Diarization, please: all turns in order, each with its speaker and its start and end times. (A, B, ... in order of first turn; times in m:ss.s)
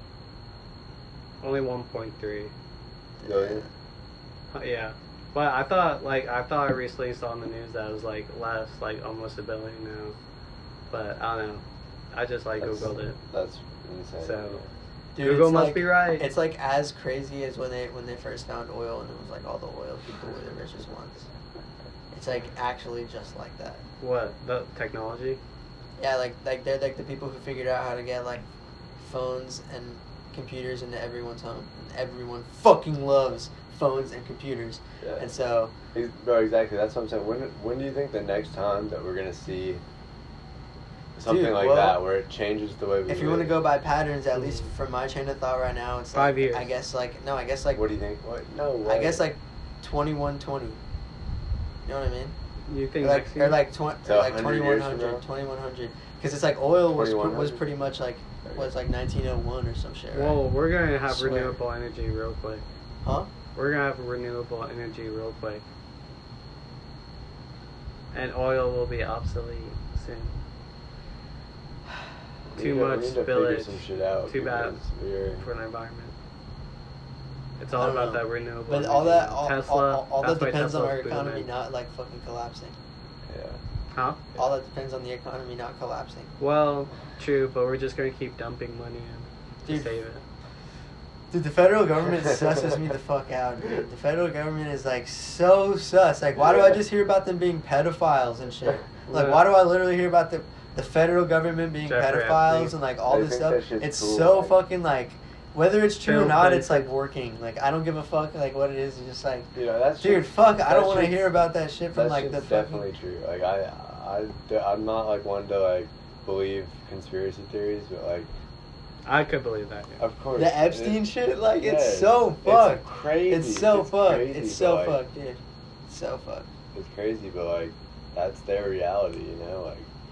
0:01.4-0:02.5 A
0:03.2-0:03.7 B
0:03.2-0:03.6 C
0:04.5-0:10.2 A
0:10.9-0:13.2 A
0:12.6-0:14.7 C
0:14.2-0:14.6 A
0:15.1-0:21.3 B
0:15.2-0:16.3 A
0:22.1-0:23.8 B
0:24.0-0:25.4 A
0:26.0-0:28.4 B
0:29.0-0:35.7 B
0:35.0-0:35.3 C
0:35.9-0:39.8 C
0:41.2-0:43.6 C
0:41.2-0:42.0 B
0:43.1-0:47.8 B
0:44.4-0:44.7 A
0:46.1-0:46.7 A
0:47.7-0:49.3 C
0:48.8-0:50.8 B
0:51.8-0:52.4 B
0:52.7-0:53.6 A
0:53.0-1:00.4 B
0:54.0-0:55.2 C
0:56.9-0:57.6 C
0:58.4-0:58.7 C
1:00.1-1:02.6 A
1:01.1-1:01.6 B
1:03.0-1:03.3 B
1:03.5-1:05.6 A
1:08.1-1:10.4 A
1:12.5-1:15.4 C
1:12.6-1:14.8 A
1:15.4-1:16.1 A
1:17.6-1:21.5 A
1:17.8-1:22.8 B
1:23.2-1:23.6 C
1:23.9-1:24.2 A
1:24.4-1:26.3 B
1:26.4-1:30.2 A
1:29.6-1:29.9 B
1:31.3-1:52.8 B
1:32.1-1:32.5 C
1:36.3-1:36.8 C
1:39.1-1:39.4 A
1:41.8-1:42.8 A
1:43.0-1:44.6 C
1:46.0-1:46.9 A
1:49.5-1:58.3 C
1:59.0-2:00.0 A
2:00.0-2:01.0 C
2:00.4-2:06.5 B
2:01.6-2:05.0 C
2:06.7-2:09.9 C